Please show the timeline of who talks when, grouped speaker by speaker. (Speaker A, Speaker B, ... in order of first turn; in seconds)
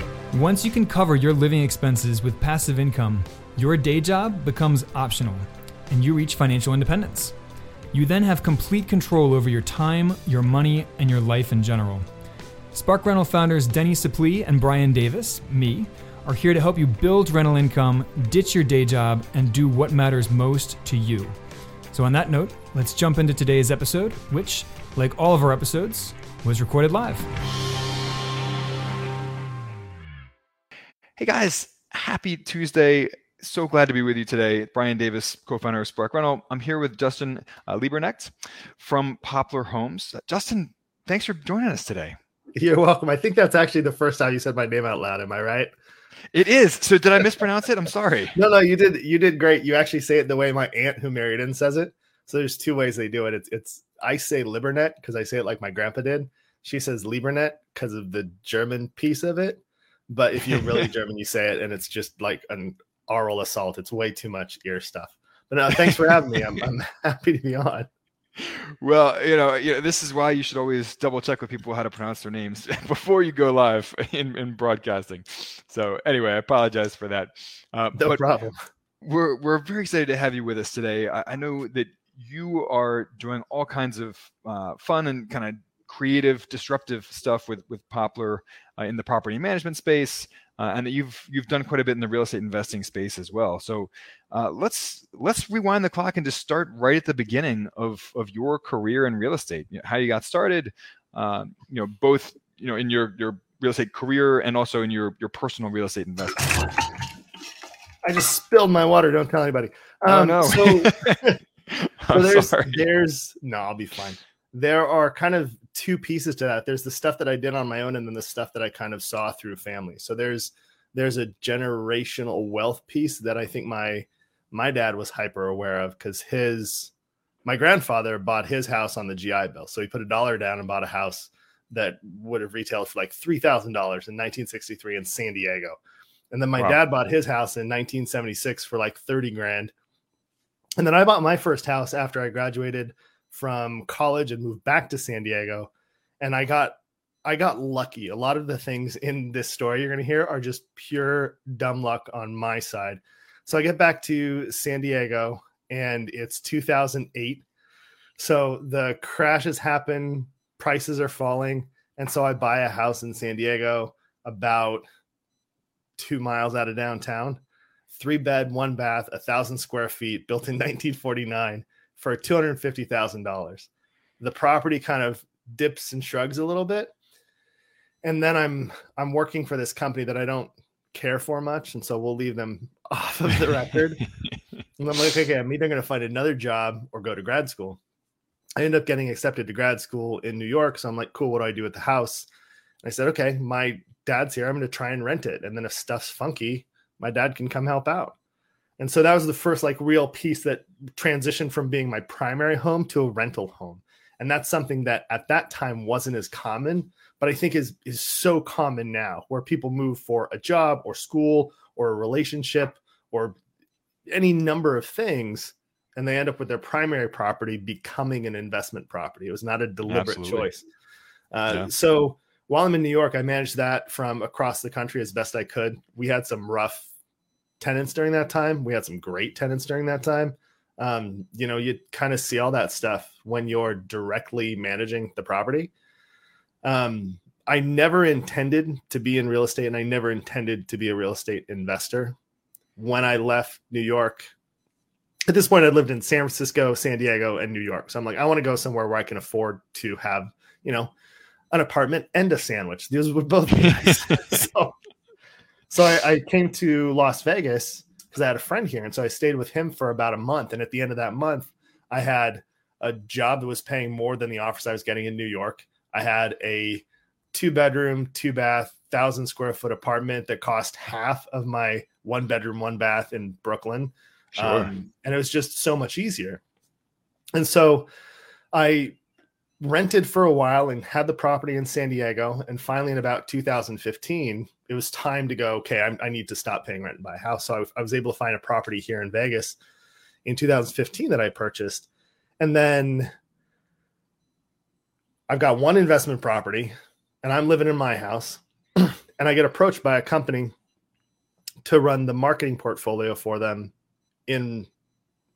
Speaker A: 0.3-7.3, 7.9-12.1, 12.7-21.3, 21.9-27.3
Speaker B: 31.2-42.2, 46.3-48.3, 68.4-78.2, 79.0-106.8, 110.1-112.8, 219.9-220.5, 253.6-254.4, 274.3-274.7
Speaker C: 42.5-45.7, 48.3-67.9, 78.0-78.6, 108.0-111.4, 112.1-126.9, 127.4-135.8, 136.3-139.7, 140.8-157.4, 158.2-164.8, 166.0-173.7, 174.2-176.9, 178.0-184.0, 184.8-187.8, 188.6-192.3, 192.8-198.1, 198.8-213.4, 214.1-220.6, 221.3-226.9, 227.6-235.7, 236.6-242.2, 242.8-244.3, 245.3-250.9, 251.5-254.8, 255.7-276.4, 277.3-277.9, 278.5-279.0, 279.6-289.6, 290.2-291.9, 292.4-293.1, 295.3-300.5, 301.6-303.7, 304.3-304.7